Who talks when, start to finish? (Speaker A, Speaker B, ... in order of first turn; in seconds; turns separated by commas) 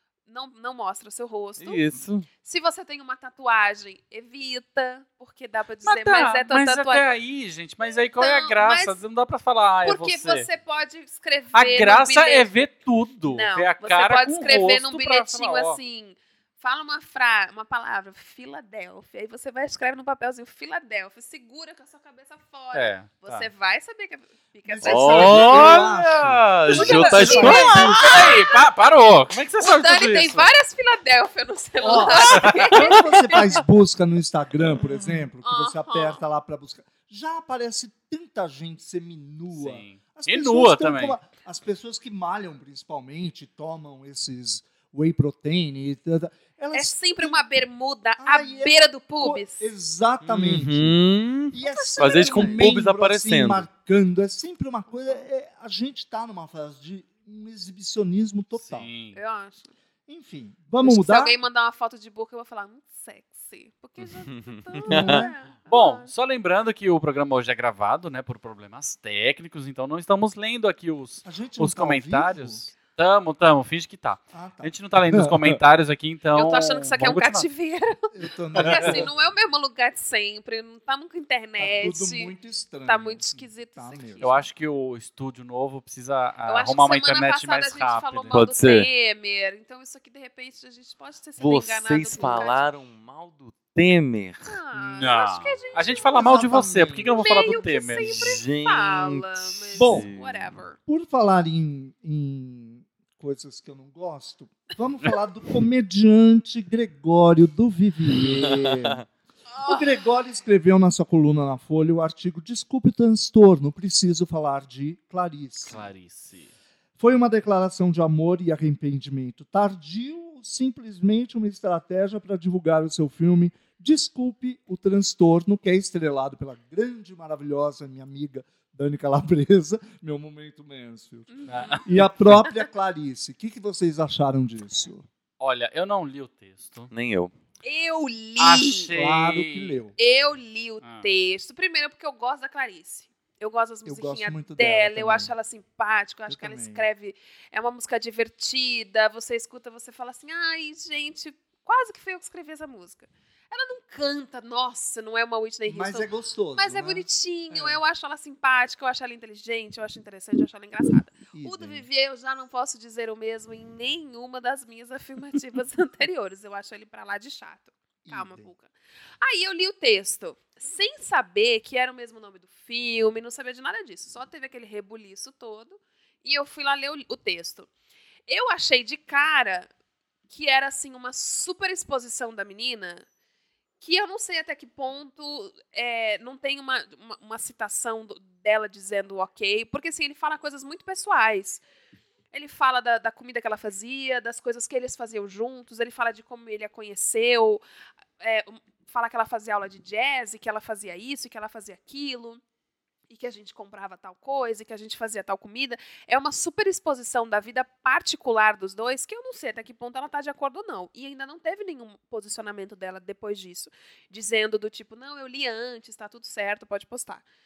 Speaker A: 0.3-1.8, Speaker B: 1.6-2.3, Speaker A: 2.4-7.1, Speaker C: 5.8-10.5, Speaker A: 7.8-9.0, Speaker A: 9.8-12.5, Speaker C: 11.5-15.8, Speaker A: 13.3-25.9, Speaker C: 22.7-23.5, Speaker D: 24.6-28.3, Speaker B: 24.8-28.4, Speaker A: 26.7-33.6, Speaker C: 26.7-30.5, Speaker D: 31.8-47.4, Speaker C: 32.0-32.6, Speaker A: 35.4-36.2, Speaker C: 39.5-41.2, Speaker A: 46.7-49.6, Speaker D: 48.2-51.0, Speaker B: 50.2-53.7, Speaker D: 51.5-58.9, Speaker A: 51.6-52.8, Speaker C: 58.5-59.2, Speaker A: 59.1-59.7, Speaker D: 60.1-61.4, Speaker A: 60.8-66.1, Speaker B: 64.0-65.3, Speaker D: 64.8-65.4, Speaker C: 65.7-77.5, Speaker D: 71.2-72.6, Speaker D: 74.3-75.6, Speaker A: 76.3-82.3, Speaker D: 78.1-79.1, Speaker D: 81.6-84.3, Speaker A: 82.8-84.5, Speaker C: 84.2-88.4, Speaker A: 86.5-92.7, Speaker B: 88.3-88.9, Speaker B: 91.4-94.6, Speaker A: 94.4-96.4, Speaker C: 94.7-98.4, Speaker D: 96.1-97.6, Speaker A: 97.1-100.8, Speaker B: 98.0-100.5, Speaker D: 99.8-100.1, Speaker D: 100.8-109.0, Speaker B: 108.2-109.0, Speaker A: 109.5-110.0, Speaker D: 109.6-115.8, Speaker C: 115.7-116.5, Speaker D: 117.0-135.1, Speaker A: 131.3-132.6, Speaker C: 131.5-132.0, Speaker C: 135.4-136.9, Speaker B: 136.9-137.3, Speaker A: 137.6-138.9, Speaker C: 138.4-139.8, Speaker D: 138.9-139.9, Speaker A: 140.0-177.7, Speaker C: 140.8-141.1, Speaker D: 143.8-145.3, Speaker D: 146.3-146.9, Speaker D: 155.7-157.8, Speaker D: 161.3-161.8, Speaker D: 168.0-168.5, Speaker A: 178.3-179.7, Speaker A: 180.3-183.0, Speaker A: 183.8-191.6, Speaker A: 192.3-197.6, Speaker A: 198.2-202.4, Speaker A: 203.1-217.2